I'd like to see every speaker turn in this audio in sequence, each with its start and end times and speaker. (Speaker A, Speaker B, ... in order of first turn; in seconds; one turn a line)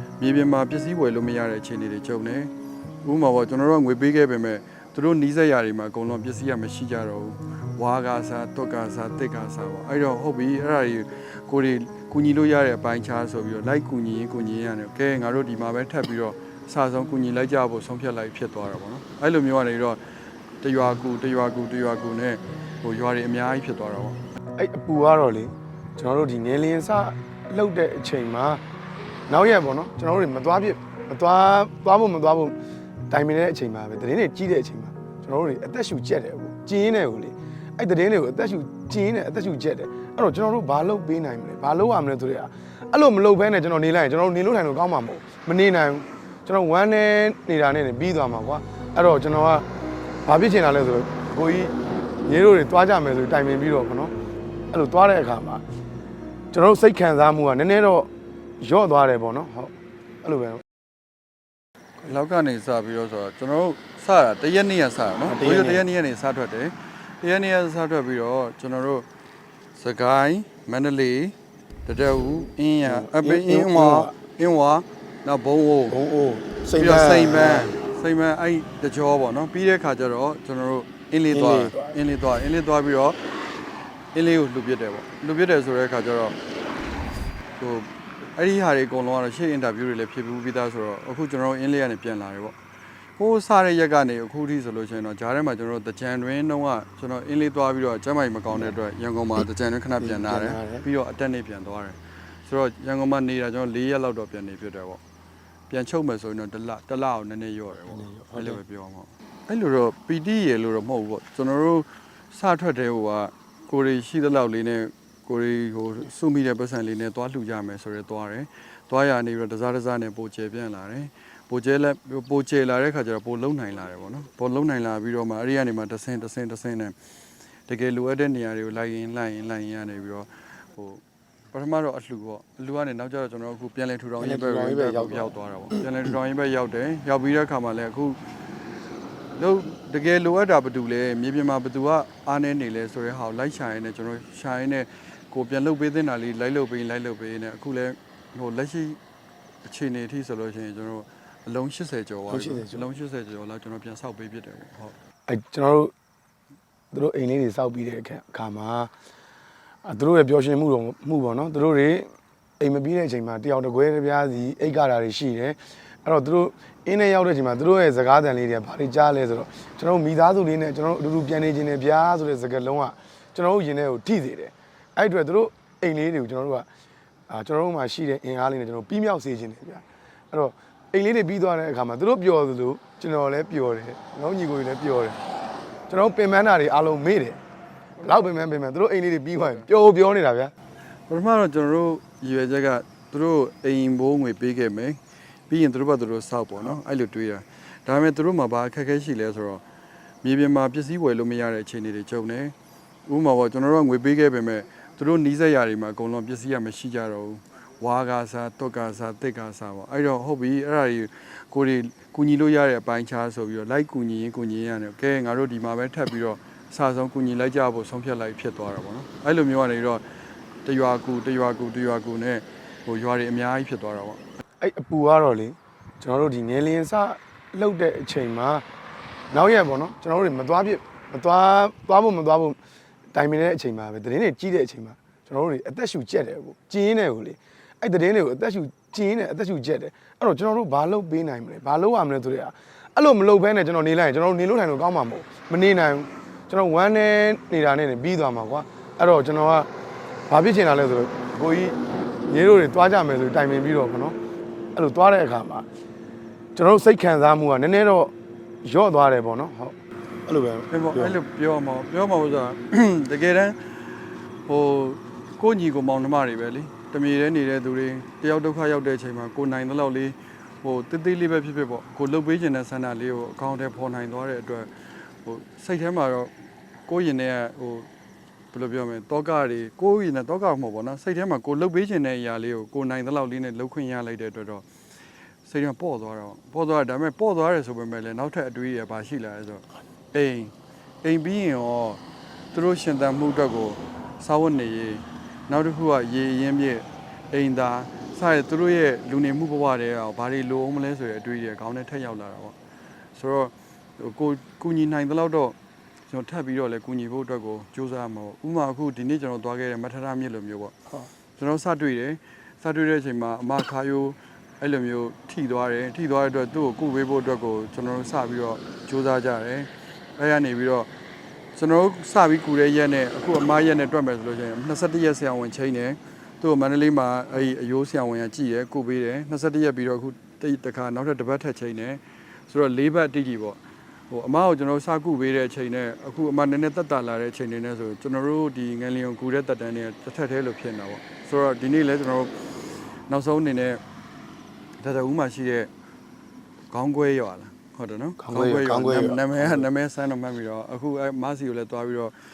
Speaker A: 0.2-2.5
Speaker A: 3.0-20.0
Speaker A: 20.6-24.2
Speaker B: 24.6-28.6
Speaker B: 29.3-32.6
Speaker B: 33.1-49.7
Speaker B: 50.3-54.1
Speaker B: 54.7-55.6
Speaker B: 56.5-60.6
Speaker A: 62.0-69.1
Speaker B: 65.2-65.9
Speaker A: 69.8-76.0
Speaker B: 72.8-74.2
Speaker B: 75.9-77.8
Speaker A: 76.7-83.2
Speaker B: 81.3-82.0
Speaker A: 84.1-86.4
Speaker A: 87.6-92.6
Speaker A: 93.2-105.0
Speaker B: 100.0-100.9
Speaker A: 105.7-127.0
Speaker B: 107.9-108.6
Speaker A: 127.7-131.0
Speaker A: 131.5-138.2
Speaker B: 134.2-135.8
Speaker A: 139.3-149.0
Speaker A: 149.7-154.9
Speaker B: 152.3-152.9
Speaker B: 155.3-155.9
Speaker B: 156.9-158.9
Speaker B: 159.8-176.7
Speaker B: 177.3-185.2
Speaker B: 185.9-187.4
Speaker B: 188.0-190.5
Speaker A: 191.1-199.6
Speaker A: 200.2-202.5
Speaker A: 203.1-220.0
Speaker A: 220.7-224.2
Speaker B: 224.6-228.6
Speaker B: 229.3-232.6
Speaker B: 233.2-249.7
Speaker B: 250.3-254.2
Speaker B: 254.8-255.7
Speaker B: 256.6-258.1
Speaker B: 258.6-259.8
Speaker B: 260.3-261.2
Speaker A: 260.7-263.8
Speaker A: 264.5-274.7
Speaker A: 275.2-276.3
Speaker A: 276.9-277.9
Speaker A: 278.5-284.6
Speaker A: 285.5-292.0
Speaker A: 292.5-302.6
Speaker A: 303.2-305.6
Speaker A: 306.1-310.8
Speaker A: 311.4-320.9
Speaker A: 321.6-333.6
Speaker A: 334.1-342.3
Speaker A: 343.1-343.8
Speaker A: 344.8-345.7
Speaker A: 346.7-352.1
Speaker B: 348.2-349.6